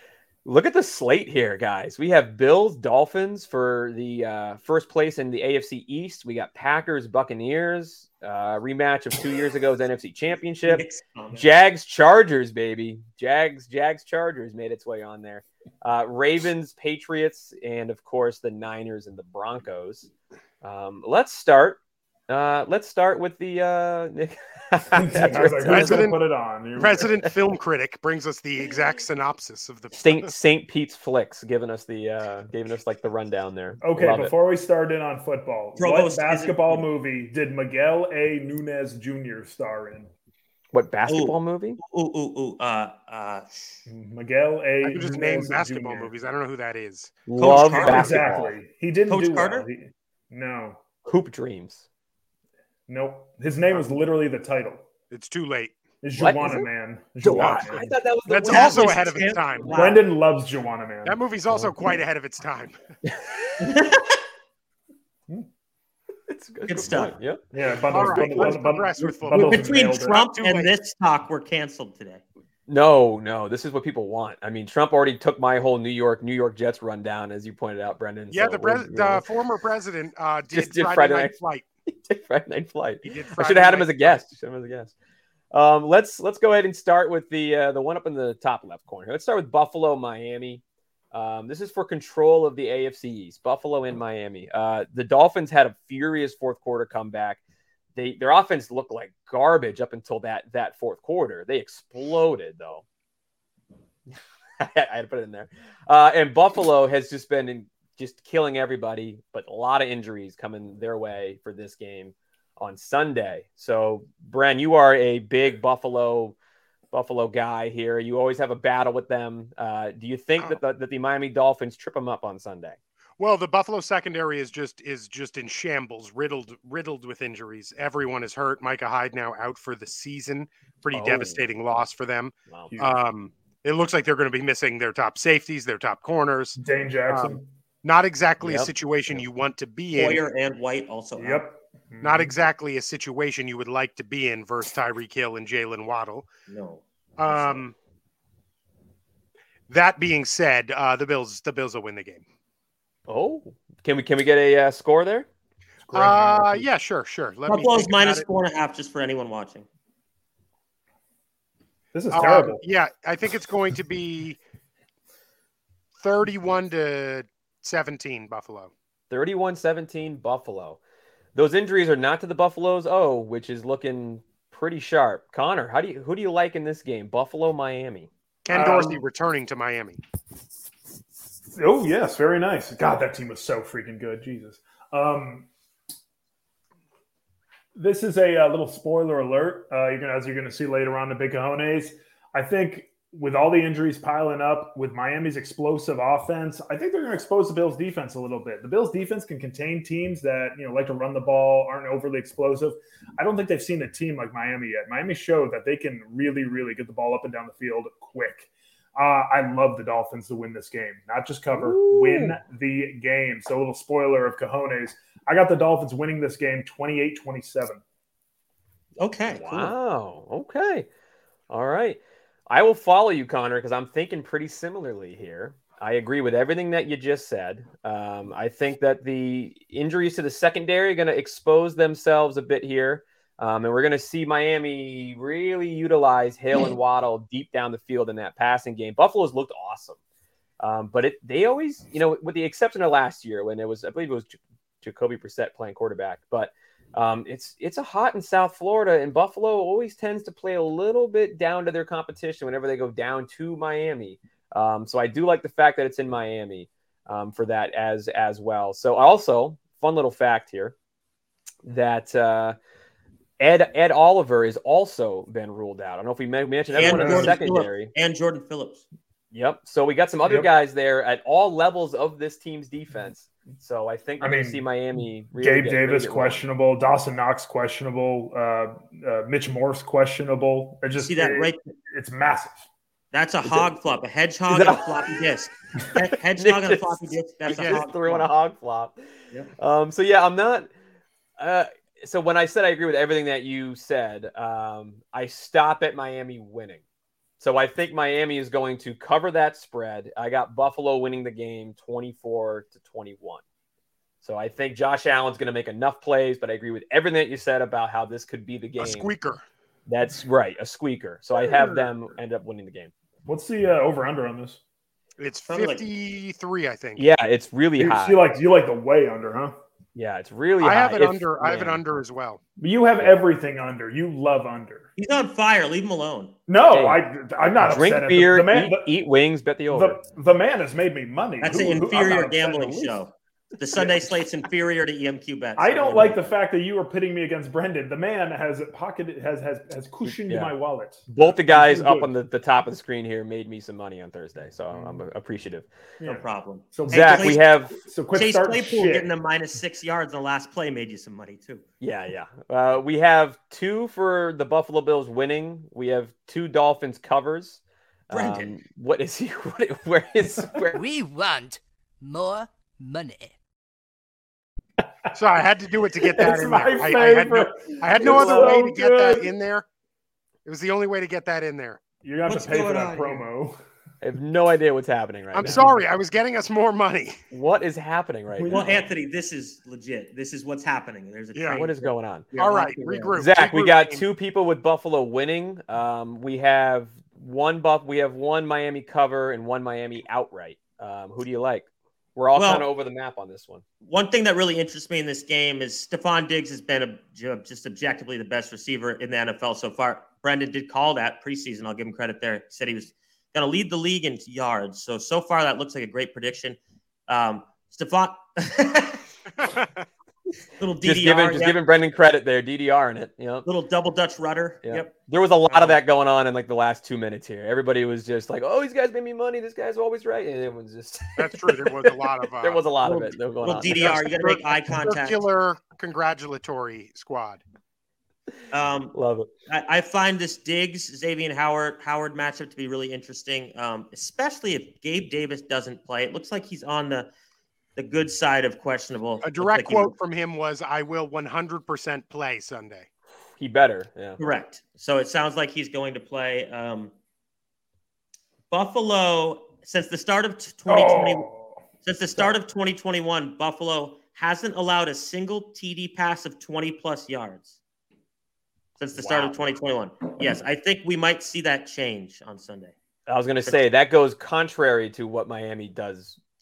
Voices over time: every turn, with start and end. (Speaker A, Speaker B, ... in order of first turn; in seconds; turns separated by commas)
Speaker A: 0.4-20.1, Speaker B: 10.6-11.5, Speaker A: 20.6-26.1, Speaker C: 24.9-27.2, Speaker D: 25.6-26.2, Speaker D: 26.8-30.3, Speaker A: 29.9-34.3, Speaker C: 33.8-40.1, Speaker B: 35.8-36.9, Speaker A: 40.7-41.8, Speaker B: 41.1-43.8, Speaker C: 43.9-46.1, Speaker D: 44.8-47.1, Speaker A: 47.3-48.5, Speaker B: 47.4-48.4, Speaker C: 47.7-50.8, Speaker B: 49.1-49.7, Speaker A: 51.0-51.8, Speaker C: 52.9-54.8, Speaker D: 55.1-55.8, Speaker C: 56.0-57.8, Speaker A: 56.2-56.7, Speaker A: 57.2-59.3, Speaker D: 57.3-59.9, Speaker B: 58.4-60.0, Speaker C: 59.7-61.2, Speaker D: 61.0-62.8, Speaker B: 63.6-64.2, Speaker A: 66.3-67.4, Speaker B: 66.7-67.2, Speaker C: 67.5-70.2, Speaker D: 67.9-70.7, Speaker A: 68.0-68.6, Speaker B: 69.3-72.2, Speaker A: 72.7-79.2, Speaker D: 78.3-81.6, Speaker A: 80.5-81.3, Speaker A: 81.9-84.9, Speaker D: 83.0-84.2, Speaker A: 85.5-97.4, Speaker A: 98.0-102.8, Speaker A: 104.6-116.3, Speaker A: 116.9-122.8, Speaker D: 123.2-136.6, Speaker A: 130.9-131.4, Speaker A: 132.5-132.7, Speaker C: 136.6-137.5, Speaker D: 137.1-140.2, Speaker A: 138.4-138.7, Speaker B: 139.9-141.4, Speaker C: 141.2-142.3, Speaker D: 142.0-146.3, Speaker B: 146.5-147.6, Speaker D: 147.2-147.7, Speaker D: 149.7-152.2, Speaker A: 153.1-155.3, Speaker C: 155.9-156.7, Speaker D: 155.9-158.2, Speaker B: 157.5-159.7, Speaker C: 161.9-162.6, Speaker D: 162.1-164.4, Speaker D: 166.0-168.7, Speaker A: 169.1-170.8, Speaker A: 171.3-178.1, Speaker D: 178.4-180.0, Speaker C: 178.5-179.0, Speaker C: 181.5-185.5, Speaker C: 187.7-217.8, Speaker A: 211.5-212.4, Speaker B: 219.0-219.7, Speaker A: 219.3-220.9, Speaker A: 221.5-240.0, Speaker A: 240.6-260.7, Speaker A: 261.6-262.6, Speaker A: 263.4-267.9, Speaker B: 266.7-268.8, Speaker C: 266.8-267.4, Speaker A: 269.3-276.4, Speaker C: 274.2-274.6, Speaker C: 275.3-282.6, Speaker B: 280.9-281.6, Speaker B: 283.1-288.3, Speaker A: 283.4-283.7, Speaker A: 284.5-285.0, Speaker A: 286.4-289.0, Speaker D: 287.5-287.8, Speaker A: 289.6-290.7, Speaker A: 291.4-296.8, Speaker A: 297.4-303.4, Speaker A: 304.2-309.1, Speaker D: 308.8-309.4, Speaker A: 309.9-312.9, Speaker D: 311.4-311.9, Speaker C: 313.2-314.6, Speaker D: 315.2-317.1, Speaker B: 315.5-315.9, Speaker A: 317.0-318.2, Speaker C: 317.8-319.6, Speaker A: 319.9-321.8, Speaker D: 320.6-322.4, Speaker C: 322.6-324.9, Speaker B: 325.0-326.3, Speaker C: 326.5-328.9, Speaker A: 326.7-327.0, Speaker A: 327.6-330.0, Speaker C: 329.7-333.0, Speaker B: 331.4-336.3, Speaker C: 335.6-342.1, Speaker A: 340.0-340.5, Speaker A: 341.1-345.6, Speaker C: 344.7-345.0, Speaker C: 346.0-349.1, Speaker B: 346.0-347.4, Speaker A: 346.9-347.8, Speaker B: 348.1-351.6, Speaker A: 351.8-360.8, Speaker B: 358.1-358.6, Speaker E: 360.7-363.3, Speaker D: 365.1-369.6, Speaker C: 366.1-369.3, Speaker D: 370.4-371.8, Speaker C: 372.0-373.6, Speaker B: 372.2-373.3, Speaker A: 374.0-375.7, Speaker D: 375.3-377.2, Speaker A: 377.3-378.8, Speaker B: 378.4-383.2, Speaker D: 381.3-381.6, Speaker A: 381.5-382.3, Speaker D: 382.3-384.1, Speaker A: 383.1-393.6, Speaker B: 392.3-392.7, Speaker B: 393.8-409.0, Speaker D: 409.4-409.8, Speaker B: 410.6-411.6, Speaker A: 410.8-413.5, Speaker B: 413.4-414.9, Speaker A: 414.6-421.3, Speaker B: 415.5-415.8, Speaker D: 421.2-427.4, Speaker A: 422.4-424.0, Speaker B: 423.4-425.3, Speaker B: 428.5-428.9, Speaker A: 428.9-429.3, Speaker B: 429.5-437.1, Speaker B: 437.8-439.9, Speaker D: 439.2-442.9, Speaker A: 443.4-444.2, Speaker B: 444.2-446.9, Speaker B: 448.5-451.3, Speaker C: 450.7-451.6, Speaker B: 451.8-457.6, Speaker B: 458.8-462.7, Speaker A: 458.9-459.5, Speaker A: 463.1-466.2